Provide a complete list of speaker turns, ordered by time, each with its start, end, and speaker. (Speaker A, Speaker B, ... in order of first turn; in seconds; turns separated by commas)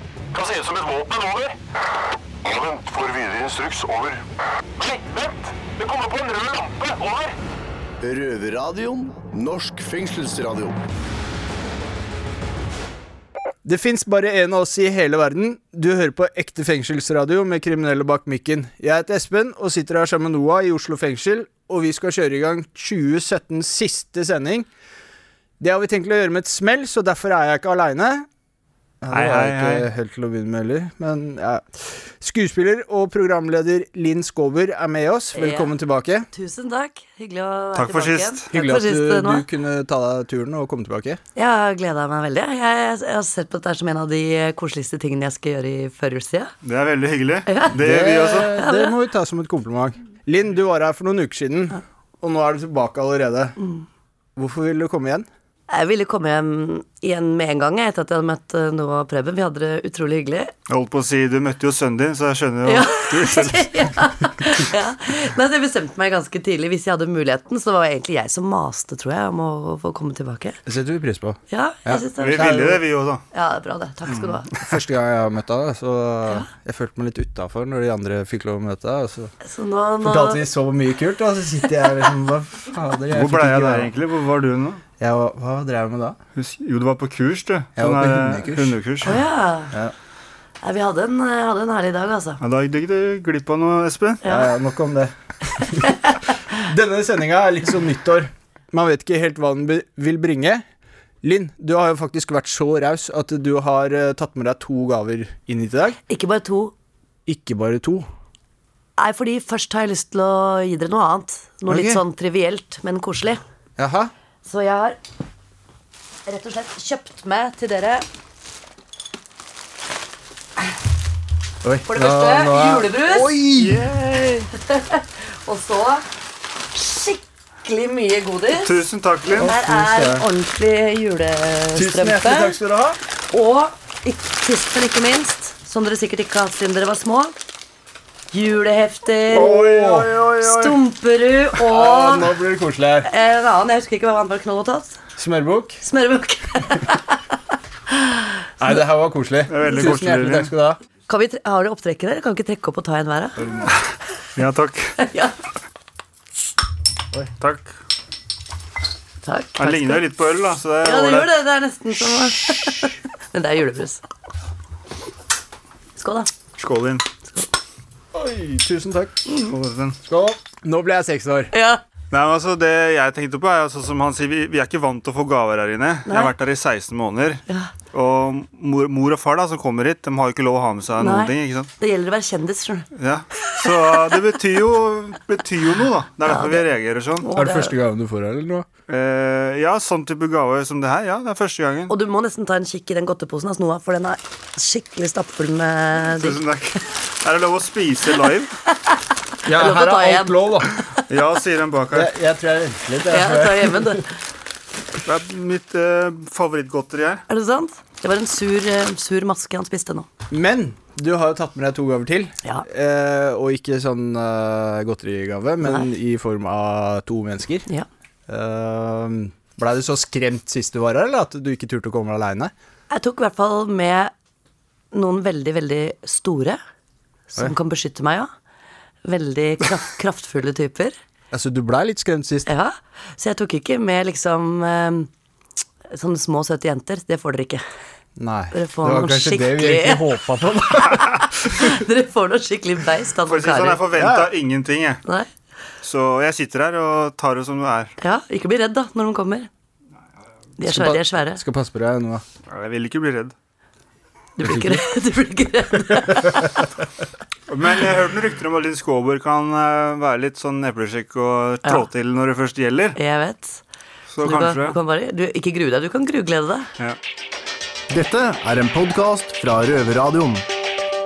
Speaker A: 0.3-1.6, Speaker A: 2.4-4.2, Speaker A: 4.8-7.3, Speaker B: 8.0-10.8, Speaker C: 13.6-24.7, Speaker C: 25.6-28.3, Speaker C: 29.0-31.6, Speaker D: 29.1-29.9, Speaker C: 32.2-36.3, Speaker E: 35.3-35.7, Speaker E: 36.3-39.4, Speaker D: 37.7-38.5, Speaker C: 38.5-41.2, Speaker E: 41.4-46.5, Speaker D: 46.6-48.6, Speaker E: 47.5-49.0, Speaker C: 47.7-53.5, Speaker E: 53.6-53.8, Speaker C: 54.4-55.3, Speaker E: 55.7-60.5, Speaker D: 60.7-64.5, Speaker E: 62.6-70.6, Speaker C: 70.7-72.8, Speaker E: 71.5-72.8, Speaker D: 72.2-73.2, Speaker E: 73.3-74.5, Speaker D: 74.1-74.3, Speaker C: 74.6-79.3, Speaker E: 79.4-80.4, Speaker C: 80.0-83.9, Speaker D: 83.1-84.8, Speaker C: 85.0-86.2, Speaker D: 86.3-89.2, Speaker C: 87.8-88.8, Speaker E: 89.0-89.7, Speaker E: 90.6-92.4, Speaker D: 92.4-94.2, Speaker E: 94.2-94.5, Speaker C: 94.2-95.9, Speaker E: 95.8-96.2, Speaker C: 96.5-100.6, Speaker C: 101.2-106.0, Speaker E: 106.1-106.7, Speaker C: 107.3-108.1, Speaker E: 109.0-113.4, Speaker C: 111.7-112.0, Speaker C: 113.8-114.1, Speaker E: 114.4-115.0, Speaker E: 116.2-118.0, Speaker C: 121.6-123.9, Speaker E: 121.9-123.3, Speaker D: 123.6-124.4, Speaker E: 124.5-126.0, Speaker E: 126.7-132.6, Speaker D: 128.6-129.6, Speaker C: 129.3-130.2, Speaker C: 131.7-133.0, Speaker E: 133.3-137.3, Speaker E: 138.3-142.3, Speaker C: 139.3-140.8, Speaker C: 141.6-143.1, Speaker E: 143.0-145.0, Speaker C: 145.2-145.8, Speaker E: 145.8-147.2, Speaker E: 147.9-148.3, Speaker C: 148.6-150.8, Speaker D: 149.5-150.5, Speaker E: 151.1-153.4, Speaker D: 154.3-154.9, Speaker E: 155.0-155.3, Speaker D: 157.4-157.7, Speaker E: 159.2-160.1, Speaker D: 159.6-161.3, Speaker E: 160.8-164.0, Speaker E: 166.0-166.3, Speaker D: 166.6-167.0, Speaker C: 168.1-169.1, Speaker E: 169.3-169.5, Speaker D: 169.5-170.0, Speaker C: 170.1-171.5, Speaker E: 171.5-171.8, Speaker D: 172.1-177.4, Speaker E: 176.1-176.3, Speaker D: 177.9-181.7, Speaker E: 181.0-182.9, Speaker D: 182.9-187.3, Speaker E: 183.5-184.1, Speaker E: 186.2-186.7, Speaker E: 187.2-187.7, Speaker C: 187.3-188.7, Speaker D: 188.9-191.9, Speaker E: 191.9-196.4, Speaker D: 196.2-198.5, Speaker E: 198.8-201.0, Speaker C: 199.4-200.7, Speaker D: 201.1-202.1, Speaker C: 201.9-204.0, Speaker E: 203.1-204.1, Speaker D: 205.1-207.2, Speaker E: 207.3-210.1, Speaker C: 210.3-217.7, Speaker E: 215.6-215.9, Speaker C: 218.3-222.5, Speaker E: 222.9-224.1, Speaker E: 224.9-226.6, Speaker E: 227.3-228.3, Speaker E: 229.0-230.9, Speaker C: 231.3-232.5, Speaker E: 232.4-235.1, Speaker E: 235.9-237.6, Speaker C: 238.2-241.0, Speaker E: 238.5-240.2, Speaker E: 240.8-243.8, Speaker D: 243.3-245.0, Speaker C: 243.9-244.3, Speaker D: 245.8-247.9, Speaker E: 248.0-249.5, Speaker E: 250.6-251.4, Speaker C: 250.6-252.2, Speaker D: 252.5-253.3, Speaker E: 254.4-256.5, Speaker C: 254.4-254.7, Speaker D: 257.5-263.0, Speaker E: 262.9-263.6, Speaker D: 264.1-264.8, Speaker E: 264.2-266.7, Speaker B: 267.9-270.4